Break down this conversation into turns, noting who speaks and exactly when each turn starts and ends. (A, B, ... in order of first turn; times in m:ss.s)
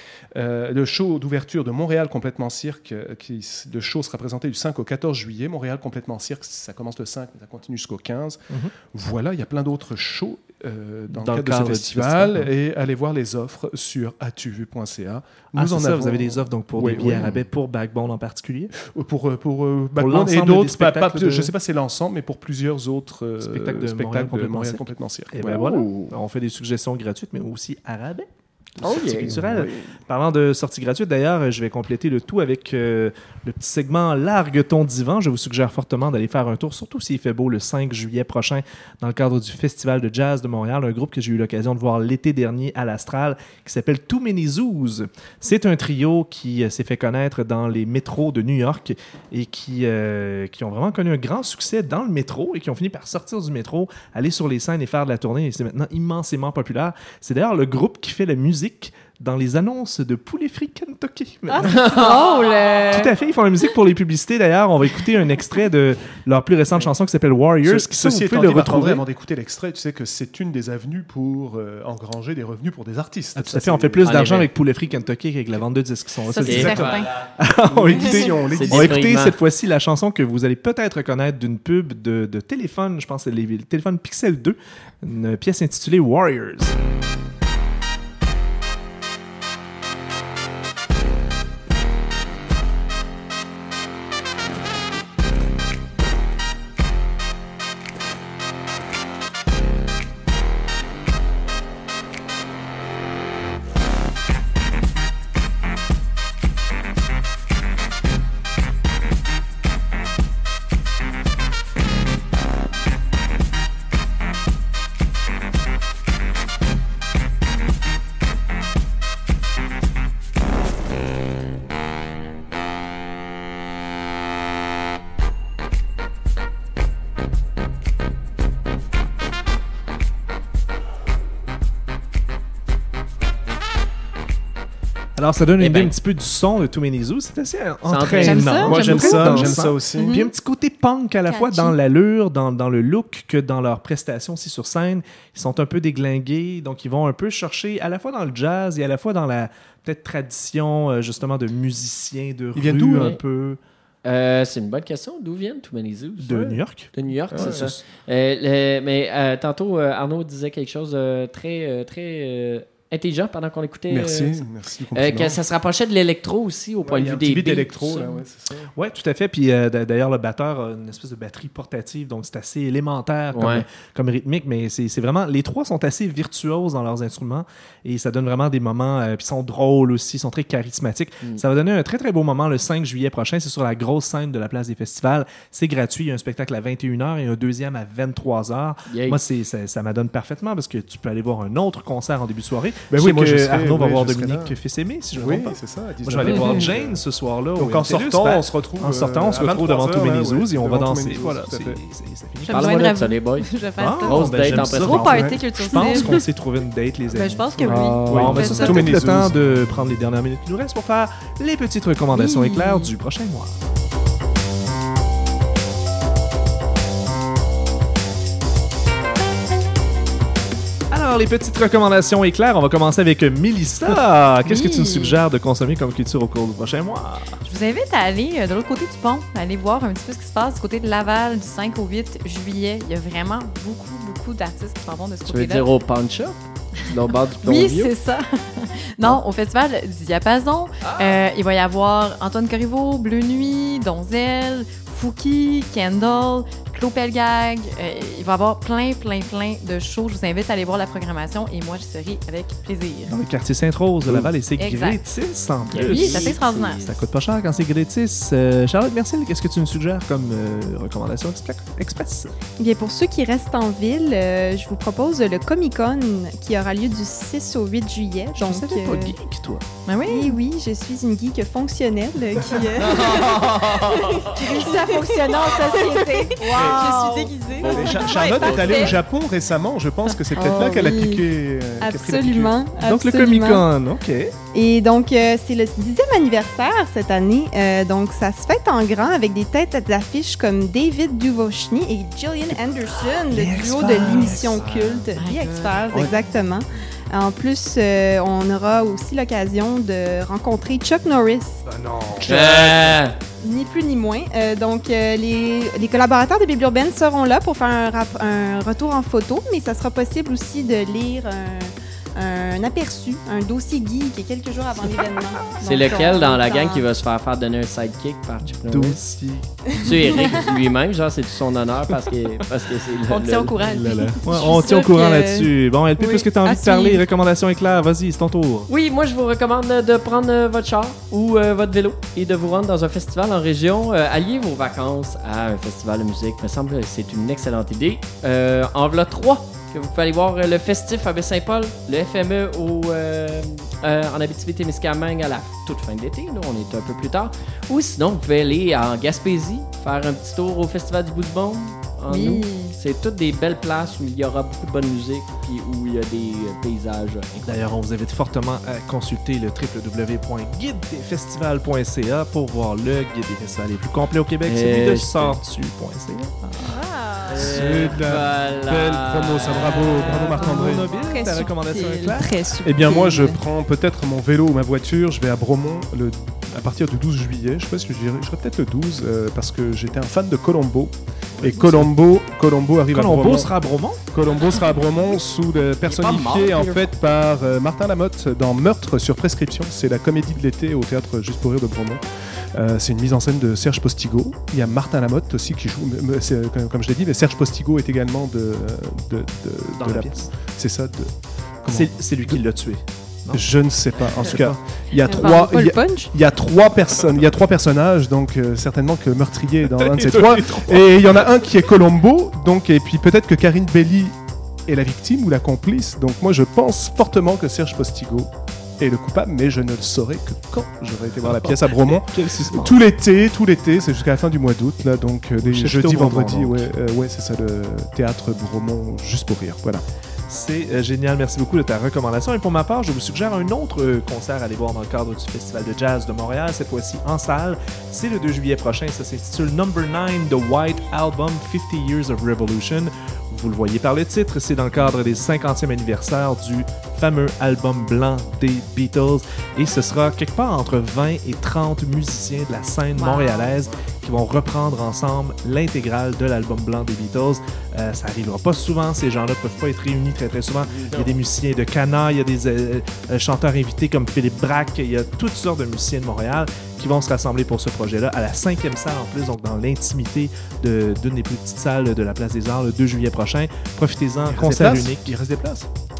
0:00.3-0:17.4 A
0:11.1-0:12.5 B
0:15.6-0:18.7 B
0:18.8-0:25.7 A
0:20.0-0:21.5 B
0:23.4-0:28.3 B
0:25.5-0:26.1 C
0:28.8-1:01.9 B
0:28.8-0:29.3 C
0:28.8-0:29.8 A
1:01.5-1:03.1 D
1:01.6-1:02.6 C
1:02.9-1:09.1 B
1:07.6-1:14.1 A
1:13.4-1:26.8 B
1:14.0-1:14.5 C
1:16.3-1:17.2 D
1:16.4-1:17.2 C
1:17.7-1:19.1 A
1:18.5-1:19.4 C
2:15.2-2:33.6 B
2:15.6-2:15.9 C
2:17.8-2:19.5 C
2:18.2-2:19.1 D
2:18.5-2:20.2 A
2:20.0-2:20.2 D
2:21.3-2:21.7 D
2:32.6-2:33.2 A
2:34.0-2:48.2 C
2:36.2-2:37.8 B
2:37.3-2:37.7 A
2:43.9-2:45.4 A
2:46.8-2:48.7 A
2:48.8-3:22.8 B
2:53.3-2:53.7 C
3:08.9-3:09.2 C
3:12.9-3:14.5 A
3:15.2-3:17.0 A
3:17.6-3:21.8 A
3:22.5-3:26.2 D
3:22.5-3:23.5 C
3:23.8-3:33.6 B
3:24.0-3:25.3 C
3:25.1-3:26.1 A
3:27.1-3:29.0 D
3:27.6-3:29.7 A
3:32.1-3:32.9 D
3:40.9-3:47.3 B
3:44.5-3:45.2 D
3:47.4-3:55.7 D
3:55.3-3:57.9 C
3:57.4-4:13.1 D
4:00.8-4:01.2 C
4:13.1-4:22.3 B
4:14.6-4:15.0 D
4:15.7-4:17.0 C
4:15.8-4:16.9 D
4:22.6-4:29.2 E
4:28.3-4:29.6 B
4:29.9-4:30.4 D
4:30.1-4:39.0 E
4:32.8-4:34.3 C
4:34.4-4:37.3 D
4:36.6-4:36.8 C
4:37.6-4:39.0 C
4:37.7-4:42.6 A
4:40.3-4:41.3 E
4:41.8-4:43.7 E
4:42.8-4:44.3 B
4:44.5-5:01.6 E
4:53.3-4:55.2 B
4:55.2-4:55.8 D
5:01.6-5:03.1 B
5:02.2-5:03.2 C
5:03.4-5:16.8 E
5:15.6-5:19.0 C
5:18.4-5:20.4 B
5:19.8-5:23.6 C
5:23.1-5:25.4 D
5:23.6-5:28.7 B
5:24.3-5:25.2 E
5:26.1-5:26.9 E
5:26.4-5:26.9 D
5:28.7-5:57.7 C
5:52.1-5:52.8 D
5:57.4-6:06.5 B
6:04.4-6:05.4 C
6:06.6-6:07.3 E
6:07.3-6:10.4 C
6:07.4-6:11.0 A
6:09.9-6:12.4 B
6:10.3-6:13.4 E
6:12.6-6:23.5 A
6:21.4-6:21.9 B
6:22.9-6:24.0 B
6:24.1-6:32.0 A
6:25.8-6:26.9 C
6:32.6-6:42.5 A
6:39.8-6:40.4 B
6:41.7-6:44.6 B
6:43.3-7:09.8 A
6:45.0-6:46.1 E
6:49.6-6:51.7 B
7:01.2-7:02.8 B
7:05.4-7:06.7 B
7:10.3-7:55.1 B
7:33.0-7:33.6 D
7:40.8-7:41.2 C
7:54.3-7:55.7 A